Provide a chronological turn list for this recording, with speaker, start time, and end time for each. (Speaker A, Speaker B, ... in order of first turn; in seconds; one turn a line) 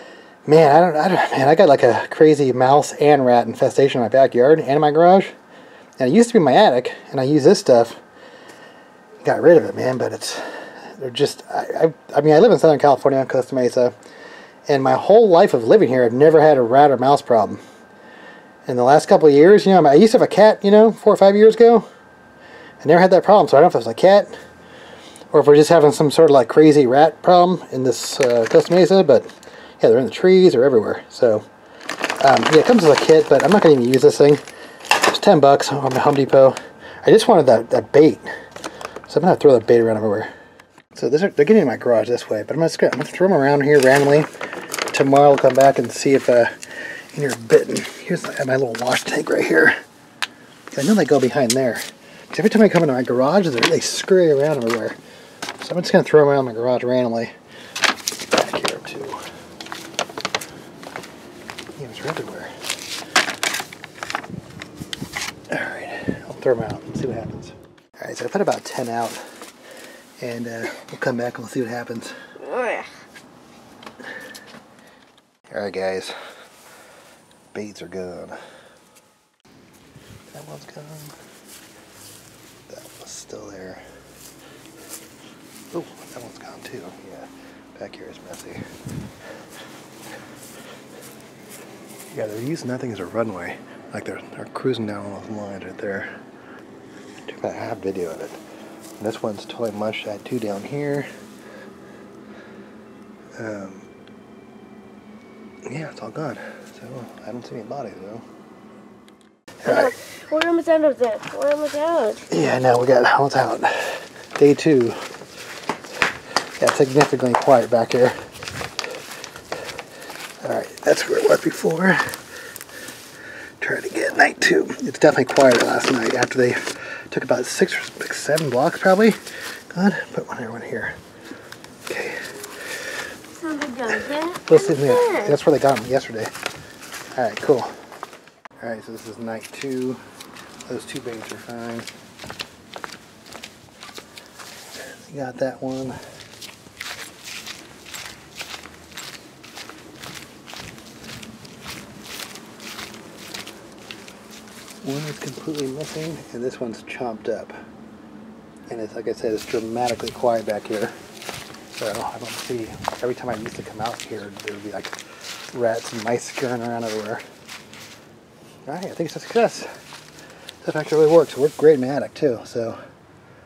Speaker A: 0.5-5.3
Speaker A: 6.0-8.0
Speaker A: 9.2-13.9
Speaker A: 14.7-17.6
Speaker A: 18.7-21.9
Speaker A: 22.8-24.3
Speaker A: 25.3-29.3
Speaker A: 29.8-31.5
Speaker A: 32.2-34.4
Speaker A: 35.0-38.3
Speaker A: 39.1-40.3
Speaker A: 40.9-44.3
Speaker A: 44.9-46.5
Speaker A: 47.1-49.8
Speaker A: 50.7-55.0
Speaker A: 55.6-57.3
Speaker A: 58.3-59.2
Speaker A: 61.8-62.5
Speaker A: 65.5-69.2
Speaker A: 70.2-72.2
Speaker B: 72.5-72.8
Speaker A: 75.5-76.2
Speaker A: 77.5-78.4
Speaker A: 80.3-81.2
Speaker A: 82.7-83.8
Speaker A: 85.7-88.6
Speaker A: 92.1-96.1
Speaker A: 97.3-98.4
Speaker A: 99.0-101.1
Speaker A: 103.4-103.9
Speaker A: 105.7-108.2
Speaker A: 109.6-109.9
Speaker B: 109.7-112.2
Speaker A: 112.3-115.0
Speaker A: 116.6-118.2
Speaker A: 120.4-122.0
Speaker A: 123.6-129.2
Speaker A: 129.7-131.0
Speaker A: 131.9-132.3
Speaker B: 133.4-135.3
Speaker A: 134.3-136.3
Speaker A: 137.2-137.7
Speaker A: 138.6-140.0
Speaker A: 140.7-141.9
Speaker A: 144.9-146.0
Speaker A: 154.8-157.6
Speaker A: 158.7-160.9
Speaker A: 161.8-165.0
Speaker A: 165.5-167.2
Speaker A: 168.7-169.7
Speaker A: 170.6-172.8